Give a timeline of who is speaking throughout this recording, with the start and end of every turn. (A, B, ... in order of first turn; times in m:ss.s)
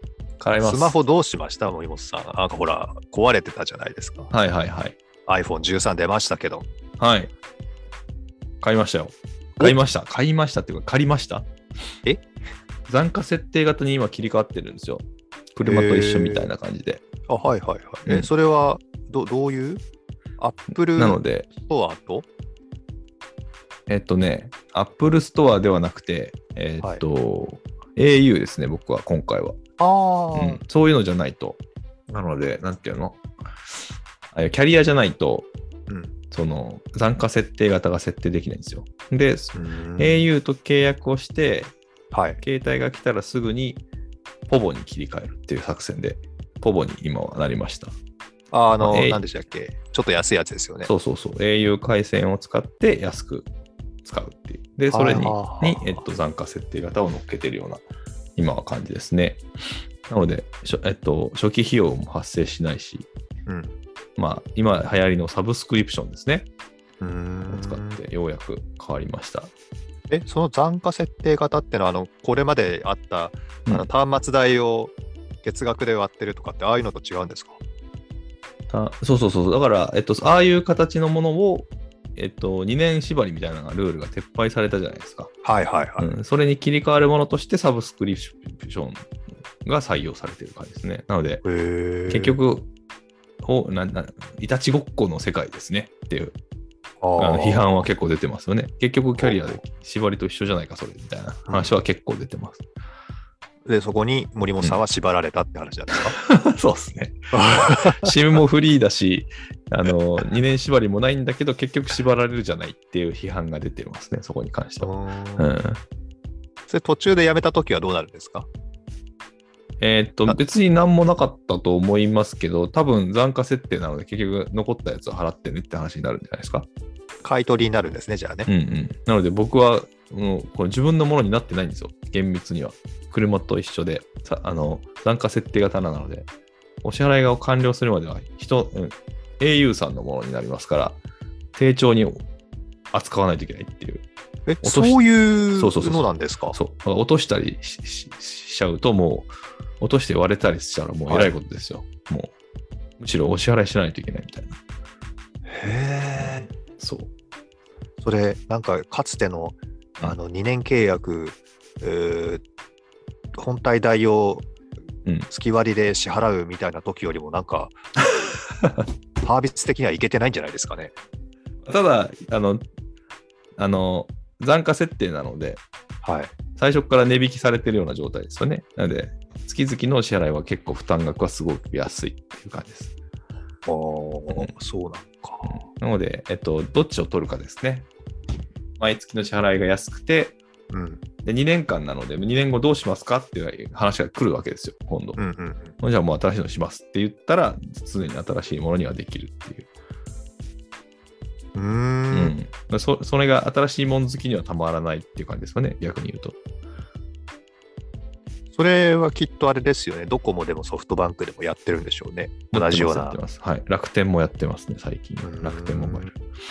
0:00.4-0:01.0 A
0:00.6-0:04.3 B
0:04.3-0:05.0 A
0:05.3-0:06.7 B
0:07.0-0:07.3 A
0:08.6-0:11.4 A
0:12.9-0:17.0 A
0:15.6-0:16.5 B
0:17.3-0:19.8 B
0:20.4-0:22.2 B
0:20.9-0:21.5 A
0:23.9-0:29.6 A
0:29.8-0:30.6 B
0:30.3-0:33.2 A
0:34.3-0:35.5 A
0:35.9-0:36.1 B
0:36.3-0:41.7 A
0:39.5-0:40.3 B
0:42.1-0:42.4 B
0:42.4-0:43.8 A
0:44.5-0:47.9 A
0:48.5-0:50.9 B
0:48.8-0:49.2 A
0:50.8-0:53.5 A
0:54.0-0:57.8 A
0:54.9-0:56.0 B
0:58.4-0:59.4 A
1:00.1-1:03.1 A
1:03.5-1:03.7 B
1:04.2-1:06.5 A
1:07.0-1:08.0 B
1:07.5-1:09.5 A
1:10.1-1:17.6 B
1:18.7-1:25.3 A
1:25.4-1:26.1 B
1:26.0-1:29.1 A
1:29.6-1:31.4 A
1:31.4-1:32.4 B
1:32.1-1:32.7 A
1:33.4-1:36.3 A
1:37.0-1:37.8 B
1:37.2-1:42.6 A
1:39.2-1:39.6 B
1:41.5-1:41.8 B
1:43.6-1:46.1 B
1:46.1-1:55.8 A
1:47.3-1:48.1 B
1:54.8-1:55.5 B
1:56.7-1:58.5 B
1:59.8-2:06.7 A
2:07.2-2:08.5 B
2:08.5-2:16.3 A
2:16.8-2:21.0 A
2:21.5-2:22.2 A
2:22.9-2:24.0 A
2:24.5-2:26.6 B
2:24.6-2:32.3 A
2:33.0-2:34.6 A
2:35.4-2:36.5 B
2:36.2-2:37.1 A
2:38.0-2:42.4 B
2:43.3-2:44.5 B
2:45.3-2:47.8 B
2:49.2-2:50.9 B
2:51.6-2:52.6 A
2:53.6-2:55.6 A
2:56.0-2:56.3 B
2:56.6-3:02.9 A
3:03.6-3:05.6 B
3:05.4-3:07.9 A
3:08.8-3:10.4 A
3:10.7-3:11.0 B
3:11.2-3:15.2 A
3:15.2-3:15.7 B
3:15.8-3:19.7 A
3:21.5-3:22.3 B
3:22.1-3:26.4 A
3:28.5-3:33.2 B
3:32.5-3:36.2 A
3:35.2-3:36.1 B